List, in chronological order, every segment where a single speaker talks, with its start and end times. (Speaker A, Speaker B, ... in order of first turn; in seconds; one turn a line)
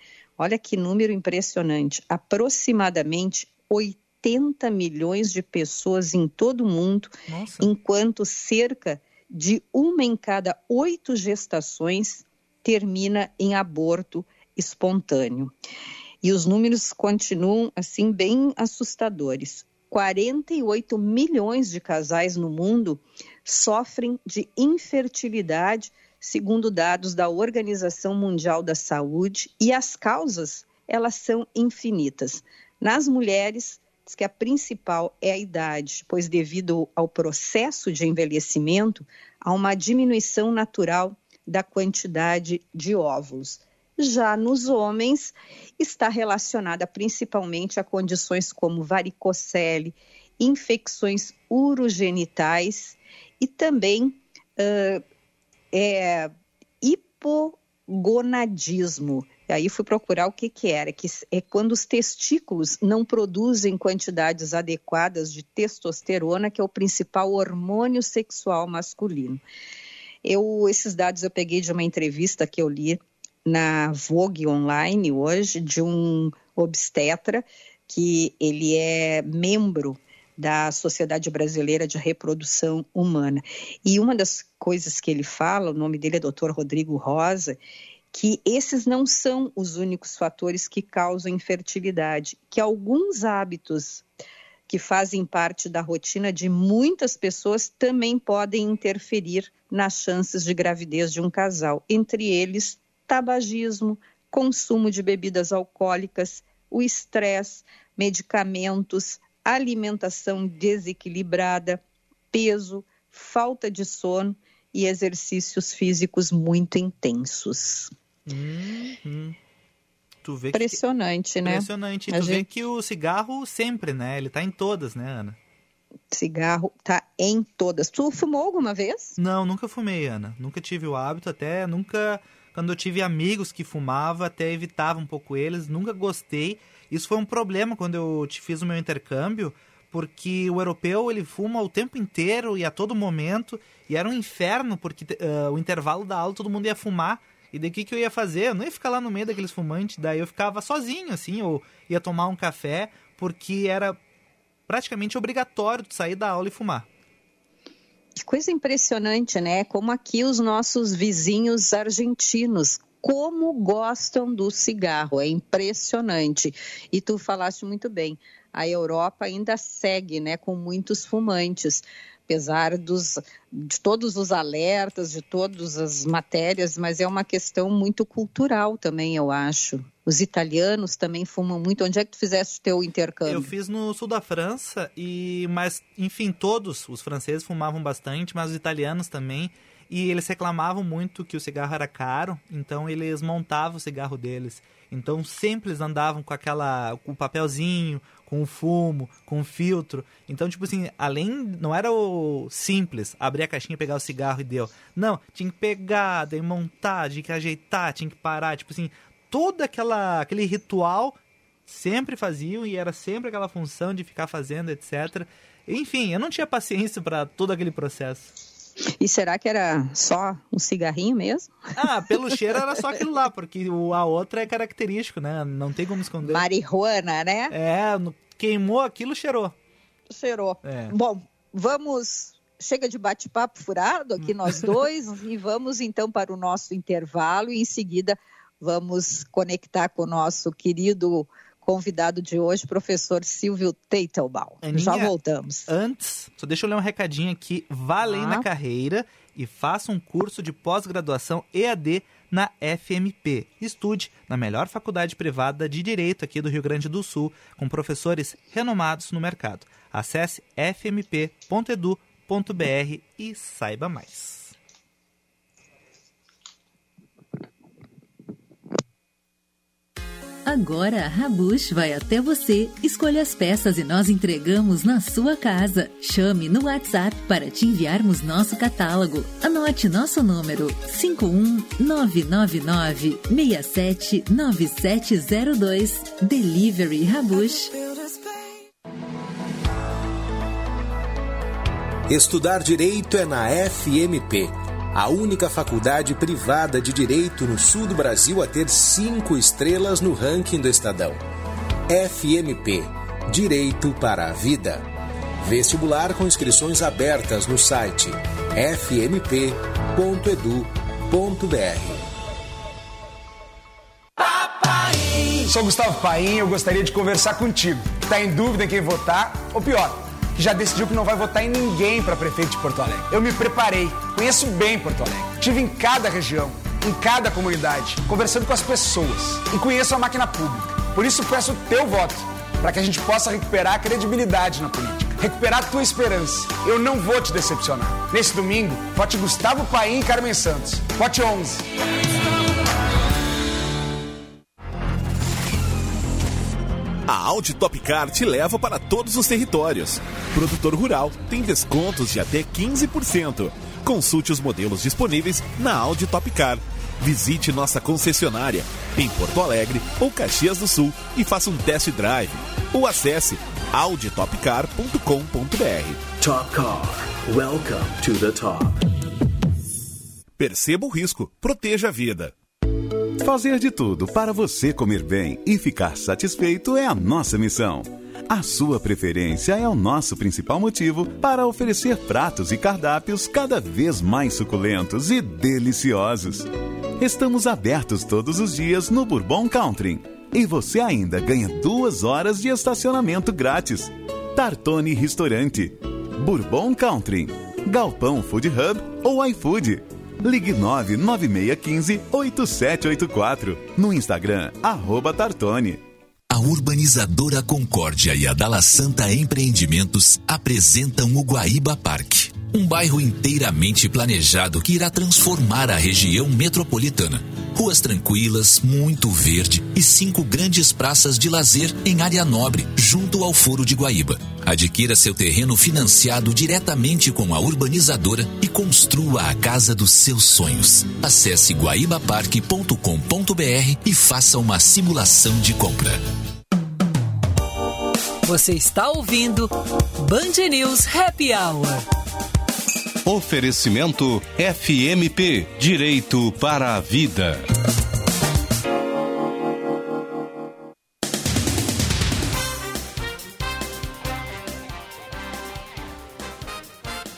Speaker A: 0.4-15.5
Speaker B: 7.3-7.7
Speaker A: 16.2-55.0
Speaker A: 55.7-56.3
Speaker A: 56.8-69.4
Speaker A: 70.2-87.6
Speaker A: 88.1-94.0
Speaker A: 94.7-117.9
Speaker B: 118.3-119.4
Speaker B: 120.2-120.8
Speaker A: 120.5-122.4
Speaker B: 121.4-125.4
Speaker A: 126.1-129.2
Speaker B: 129.2-154.0
Speaker B: 154.7-156.9
Speaker A: 158.2-183.5
Speaker B: 183.2-218.3
Speaker A: 219.0-221.5
Speaker B: 221.8-226.4
Speaker A: 226.2-227.5
Speaker B: 227.5-229.5
Speaker A: 230.1-245.7
Speaker B: 230.6-230.9
Speaker B: 244.6-245.1
Speaker B: 245.7-264.5
Speaker A: 248.0-248.4
Speaker C: 270.4-287.8
Speaker D: 292.1-301.2
Speaker D: 301.9-304.9
Speaker D: 305.4-312.1
Speaker E: 315.4-341.6
Speaker F: 347.1-366.0
Speaker G: 366.2-368.9
Speaker F: 370.4-372.4
Speaker H: 373.2-405.8
Speaker I: 406.3-436.0
Speaker J: 438.2-441.8
Speaker K: 443.0-447.4